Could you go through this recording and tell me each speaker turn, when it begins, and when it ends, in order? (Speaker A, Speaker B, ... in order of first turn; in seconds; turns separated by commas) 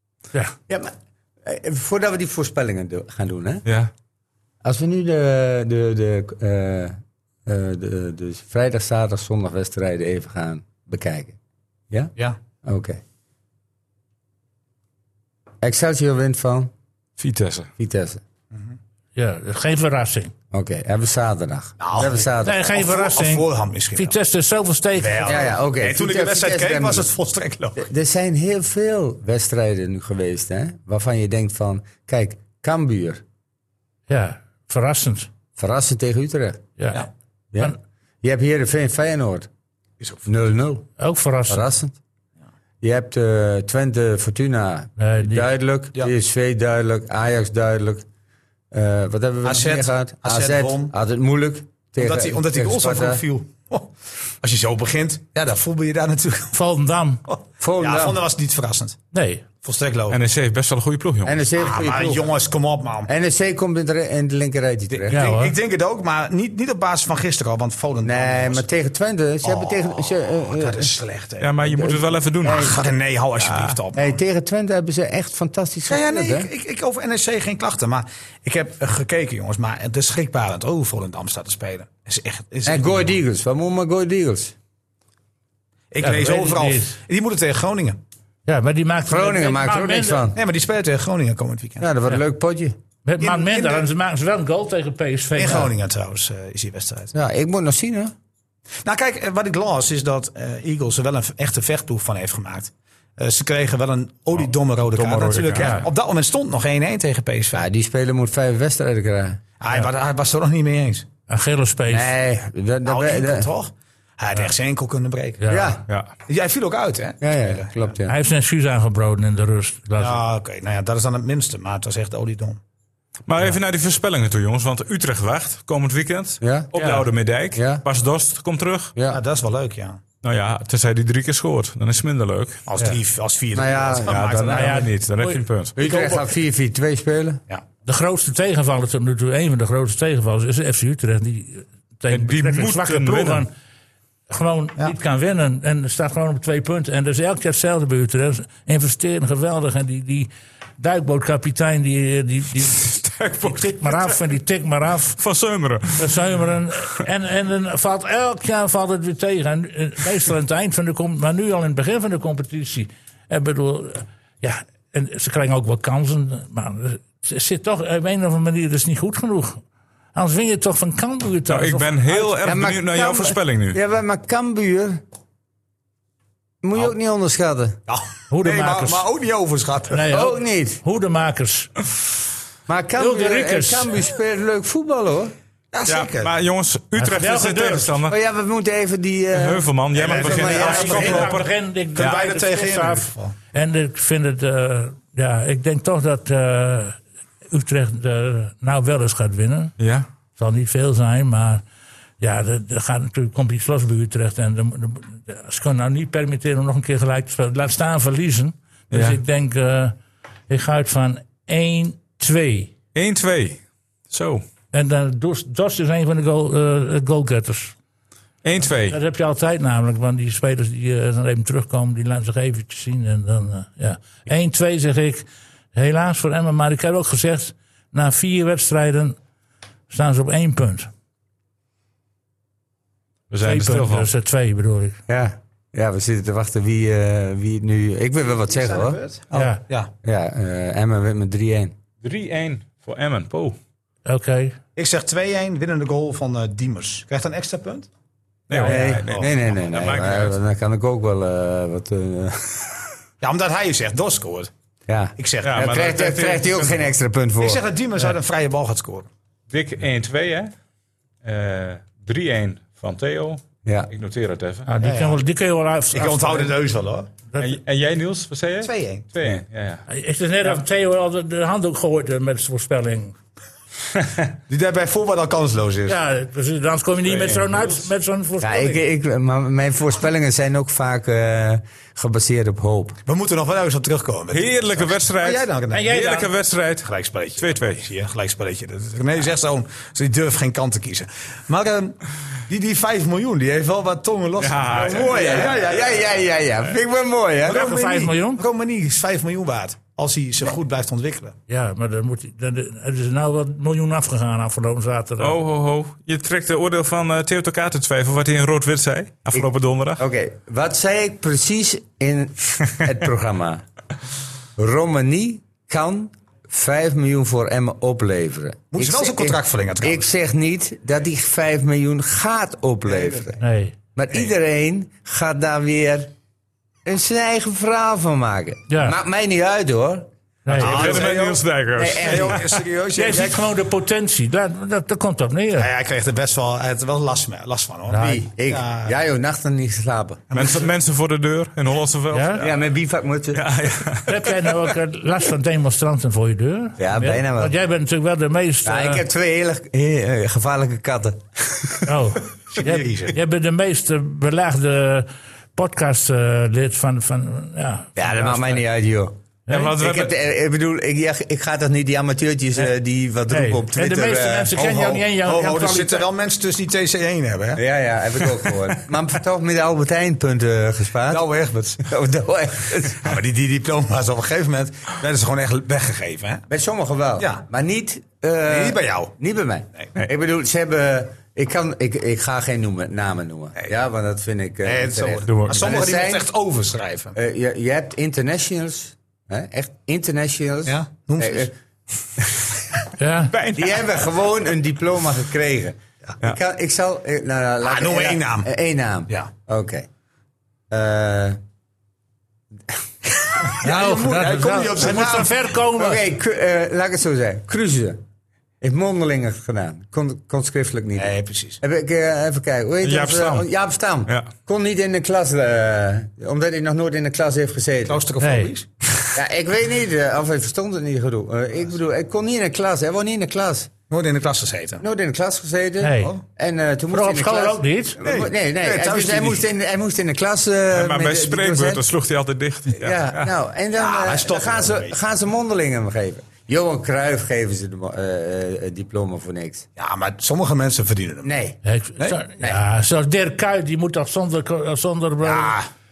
Speaker A: 0.7-3.6, Speaker B: 3.6-3.9, Speaker A: 4.6-11.4, Speaker A: 12.6-13.0, Speaker A: 15.6-16.7, Speaker B: 17.2-17.7, Speaker A: 17.8-18.2, Speaker C: 19.1-20.3, Speaker A: 20.5-22.7, Speaker D: 21.8-24.1, Speaker C: 22.4-25.4, Speaker D: 25.0-27.9, Speaker A: 25.2-27.1, Speaker A: 27.8-33.2, Speaker C: 34.1-35.3, Speaker A: 35.6-36.6, Speaker C: 36.8-37.1, Speaker A: 37.5-39.5, Speaker D: 40.0-40.3, Speaker A: 40.3-40.9, Speaker C: 41.0-41.7, Speaker A: 41.5-42.0, Speaker A: 42.8-48.0, Speaker C: 45.0-45.5, Speaker A: 48.7-53.2, Speaker D: 49.4-50.9, Speaker D: 52.0-53.9, Speaker D: 54.4-56.6, Speaker C: 56.5-57.2, Speaker D: 57.3-59.0, Speaker A: 57.6-58.2, Speaker C: 59.1-59.5, Speaker D: 59.6-60.2, Speaker B: 60.1-61.5, Speaker A: 61.2-62.3, Speaker D: 61.6-63.1, Speaker A: 63.1-65.2, Speaker D: 64.9-68.7, Speaker C: 65.1-65.5, Speaker A: 68.0-71.0, Speaker D: 69.4-71.6, Speaker B: 71.4-72.8, Speaker A: 71.6-72.8, Speaker D: 72.5-74.2, Speaker B: 73.4-73.8, Speaker A: 73.9-76.5, Speaker D: 75.9-83.2, Speaker A: 82.7-84.5, Speaker D: 85.9-88.0, Speaker C: 86.0-87.0, Speaker C: 88.5-90.2, Speaker A: 89.1-90.4, Speaker D: 90.3-91.9, Speaker A: 91.8-92.8, Speaker C: 93.1-95.7, Speaker D: 93.2-93.9, Speaker D: 95.4-97.1, Speaker A: 97.1-98.1, Speaker D: 98.8-107.6, Speaker B: 104.4-105.9, Speaker C: 105.6-105.9, Speaker A: 107.5-109.4, Speaker D: 109.6-111.1, Speaker C: 111.3-112.1, Speaker A: 111.9-113.5, Speaker D: 112.8-115.6, Speaker C: 115.4-115.8, Speaker A: 115.5-115.8, Speaker D: 116.3-117.8, Speaker A: 117.2-118.1, Speaker C: 118.1-120.2, Speaker D: 120.0-122.6, Speaker B: 123.3-128.9, Speaker A: 126.4-126.7, Speaker C: 126.8-127.1, Speaker A: 127.5-127.8, Speaker A: 129.0-129.2, Speaker D: 129.1-130.0, Speaker B: 130.2-132.6, Speaker D: 132.7-134.8, Speaker A: 133.5-134.7, Speaker B: 134.1-135.8, Speaker C: 134.5-135.4, Speaker A: 135.8-137.4, Speaker D: 135.8-136.2, Speaker C: 137.9-143.5, Speaker B: 142.1-143.5, Speaker C: 144.3-152.9, Speaker B: 152.7-154.2, Speaker C: 153.4-155.2, Speaker B: 155.2-156.2, Speaker C: 156.0-169.6, Speaker C: 170.1-172.3, Speaker B: 171.5-173.8, Speaker A: 172.4-175.0, Speaker A: 176.6-177.8, Speaker D: 177.9-180.1, Speaker C: 178.3-179.1, Speaker C: 179.9-181.8, Speaker A: 180.1-180.8, Speaker A: 182.7-185.3, Speaker C: 183.0-184.0, Speaker D: 185.7-186.3, Speaker B: 185.9-188.2, Speaker C: 187.0-188.0, Speaker A: 188.1-191.3, Speaker B: 189.3-192.2, Speaker D: 189.9-191.4, Speaker C: 190.5-199.8, Speaker D: 191.9-193.3, Speaker B: 199.8-200.1, Speaker C: 200.4-201.6, Speaker C: 202.2-210.0, Speaker B: 208.9-209.2, Speaker C: 210.5-212.7, Speaker B: 212.9-214.4, Speaker C: 214.7-217.7, Speaker B: 218.4-219.0, Speaker C: 218.7-229.2, Speaker C: 229.9-230.9, Speaker B: 233.3-234.1, Speaker C: 233.4-235.0, Speaker A: 235.1-239.0, Speaker D: 238.5-239.9, Speaker C: 239.3-239.6, Speaker A: 240.0-241.7, Speaker B: 242.0-243.6, Speaker C: 244.1-244.6, Speaker D: 244.8-247.9, Speaker B: 248.5-250.4, Speaker C: 248.5-249.0, Speaker A: 248.7-252.9, Speaker D: 253.2-254.5, Speaker A: 254.9-257.6, Speaker D: 255.2-255.8, Speaker B: 255.4-256.9, Speaker D: 257.4-259.1, Speaker B: 259.5-260.5, Speaker B: 261.2-264.7, Speaker A: 263.6-263.9, Speaker C: 264.7-266.6, Speaker D: 264.8-265.2, Speaker D: 265.9-267.1, Speaker C: 267.3-267.6, Speaker B: 267.4-269.8, Speaker D: 268.6-269.1, Speaker C: 269.9-273.2, Speaker D: 274.5-276.0, Speaker C: 275.9-278.8, Speaker B: 277.1-277.9, Speaker A: 278.4-283.0, Speaker D: 283.1-286.0, Speaker B: 284.3-287.9, Speaker C: 285.7-286.3, Speaker D: 286.8-296.2, Speaker B: 294.4-295.6, Speaker A: 294.7-297.7, Speaker D: 297.5-301.4, Speaker C: 297.5-298.4, Speaker C: 301.5-305.4, Speaker B: 305.2-310.0, Speaker A: 309.3-313.6, Speaker A: 314.6-323.4, Speaker D: 318.7-320.1, Speaker D: 322.9-323.2, Speaker C: 323.4-323.8, Speaker A: 324.0-326.1, Speaker A: 326.9-332.6, Speaker C: 328.7-329.0, Speaker C: 330.5-330.8, Speaker B: 330.5-332.5, Speaker D: 330.5-333.4, Speaker C: 332.9-335.7, Speaker D: 335.6-338.9, Speaker C: 337.9-338.2, Speaker A: 337.9-340.2, Speaker D: 340.3-340.7, Speaker B: 340.3-342.6, Speaker C: 342.1-342.4, Speaker A: 342.4-343.5, Speaker B: 343.3-344.5, Speaker C: 344.1-349.0, Speaker A: 346.8-347.6, Speaker A: 348.6-351.9, Speaker C: 351.9-358.6, Speaker D: 352.5-353.2, Speaker A: 358.0-359.1, Speaker C: 359.5-359.8, Speaker B: 359.5-360.1, Speaker A: 359.7-364.9, Speaker C: 363.3-366.1, Speaker D: 364.6-367.6, Speaker A: 367.6-371.2, Speaker D: 368.3-368.6, Speaker D: 371.1-371.9, Speaker A: 371.8-373.2, Speaker D: 372.9-376.4, Speaker A: 376.5-386.3, Speaker D: 377.2-377.4, Speaker D: 378.4-379.1, Speaker D: 384.6-387.1, Speaker B: 385.3-385.7, Speaker A: 387.1-391.5, Speaker D: 390.7-391.5, Speaker C: 393.0-393.3, Speaker B: 393.3-393.9, Speaker A: 393.5-399.9, Speaker D: 397.6-398.5, Speaker A: 400.7-401.4, Speaker D: 403.4-405.4, Speaker C: 403.6-406.0, Speaker A: 405.8-408.0, Speaker A: 408.6-418.0, Speaker D: 411.0-411.6, Speaker B: 412.8-413.5, Speaker D: 417.9-418.7, Speaker C: 418.2-418.5, Speaker A: 419.1-423.7, Speaker D: 423.9-424.8, Speaker A: 424.8-431.9, Speaker C: 425.8-426.1, Speaker C: 426.9-428.0, Speaker D: 428.0-429.5, Speaker B: 430.7-433.3, Speaker A: 432.8-439.7, Speaker D: 433.8-435.0, Speaker D: 439.8-441.3, Speaker A: 441.2-441.6, Speaker C: 441.6-445.6, Speaker D: 445.2-445.7